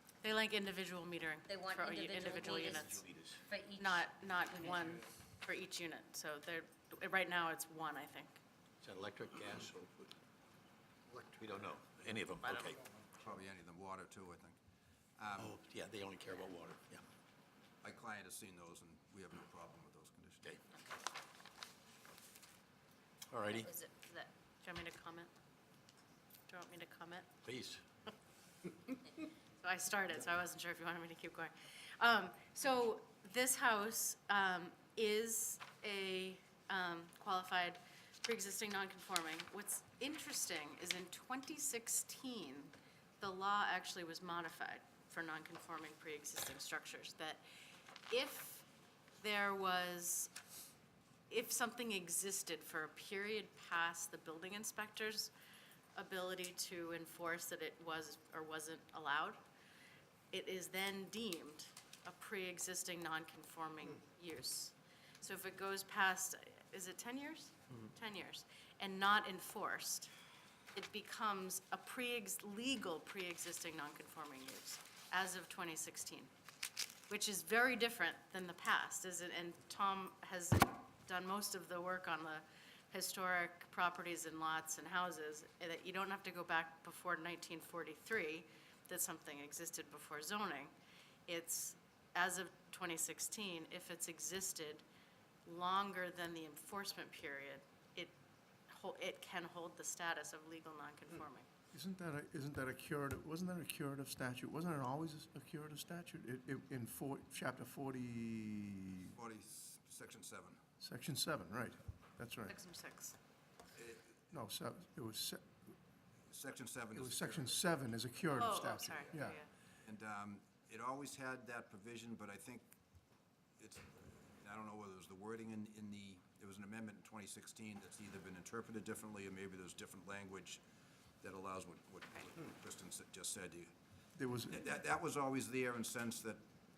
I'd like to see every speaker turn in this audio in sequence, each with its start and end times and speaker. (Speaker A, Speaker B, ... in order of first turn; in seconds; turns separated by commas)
Speaker A: 0.2-3.0, Speaker B: 1.5-5.0, Speaker C: 2.5-3.4, Speaker A: 3.8-8.4, Speaker C: 8.8-10.1, Speaker C: 11.1-12.8, Speaker D: 13.1-14.6, Speaker D: 15.2-15.6, Speaker C: 15.4-17.1, Speaker D: 17.8-20.6, Speaker C: 23.3-23.7, Speaker B: 23.5-24.0, Speaker A: 24.1-25.3, Speaker A: 26.5-27.3, Speaker C: 27.4-27.8, Speaker A: 29.6-47.4, Speaker A: 48.1-48.6, Speaker A: 49.2-50.3, Speaker A: 51.3-55.3, Speaker A: 56.0-59.4, Speaker A: 60.3-70.1, Speaker A: 70.7-76.3, Speaker A: 77.1-90.7, Speaker A: 91.3-94.8, Speaker A: 95.5-98.1, Speaker A: 98.7-101.5, Speaker E: 101.7-109.2, Speaker D: 109.1-110.6, Speaker E: 110.8-112.5, Speaker A: 112.5-113.1, Speaker D: 113.8-114.1, Speaker E: 114.3-115.5, Speaker D: 116.3-117.6, Speaker E: 116.9-119.4, Speaker A: 118.4-119.5, Speaker D: 119.8-122.7, Speaker D: 123.6-130.6, Speaker D: 131.2-133.7, Speaker E: 134.2-134.7, Speaker D: 134.5-136.4